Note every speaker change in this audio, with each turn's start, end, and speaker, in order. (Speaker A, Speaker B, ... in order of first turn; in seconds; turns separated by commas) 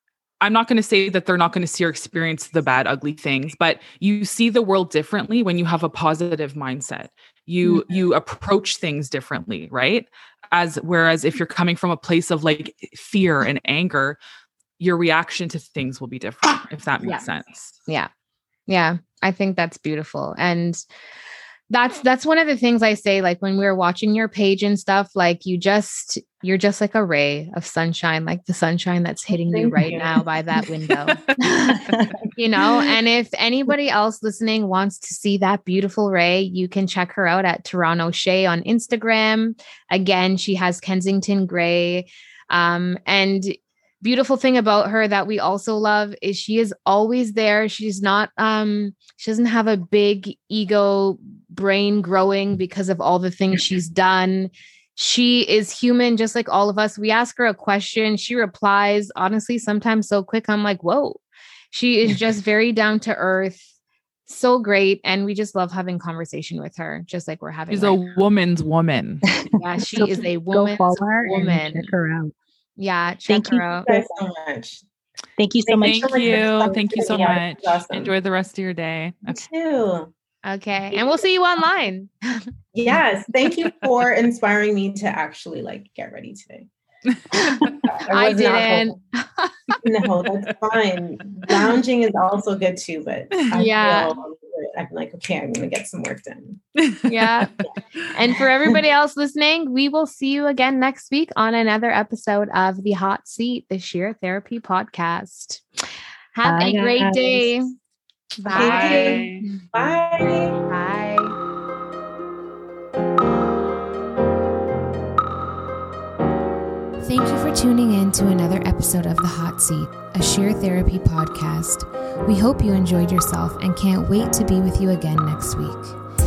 Speaker A: 0.4-14.2, Speaker A: 14.8-17.8, Speaker B: 18.7-20.8, Speaker B: 21.7-31.2, Speaker C: 29.5-30.1, Speaker B: 32.4-63.7, Speaker B: 64.3-68.0, Speaker A: 67.7-69.3, Speaker D: 69.3-72.3, Speaker B: 69.6-71.9, Speaker B: 72.8-73.9, Speaker D: 73.3-74.0, Speaker C: 73.9-74.8, Speaker D: 75.4-77.2, Speaker C: 75.7-78.1, Speaker A: 75.8-79.4, Speaker C: 79.3-80.1, Speaker B: 80.4-82.5, Speaker C: 82.7-86.7, Speaker B: 87.3-89.7, Speaker C: 87.8-88.9, Speaker C: 89.8-96.6, Speaker B: 93.5-94.2, Speaker B: 97.0-105.6, Speaker B: 106.3-107.7, Speaker C: 106.4-107.5, Speaker B: 108.4-109.3, Speaker A: 108.5-109.4, Speaker C: 108.5-110.6, Speaker B: 110.7-111.4, Speaker B: 117.0-126.0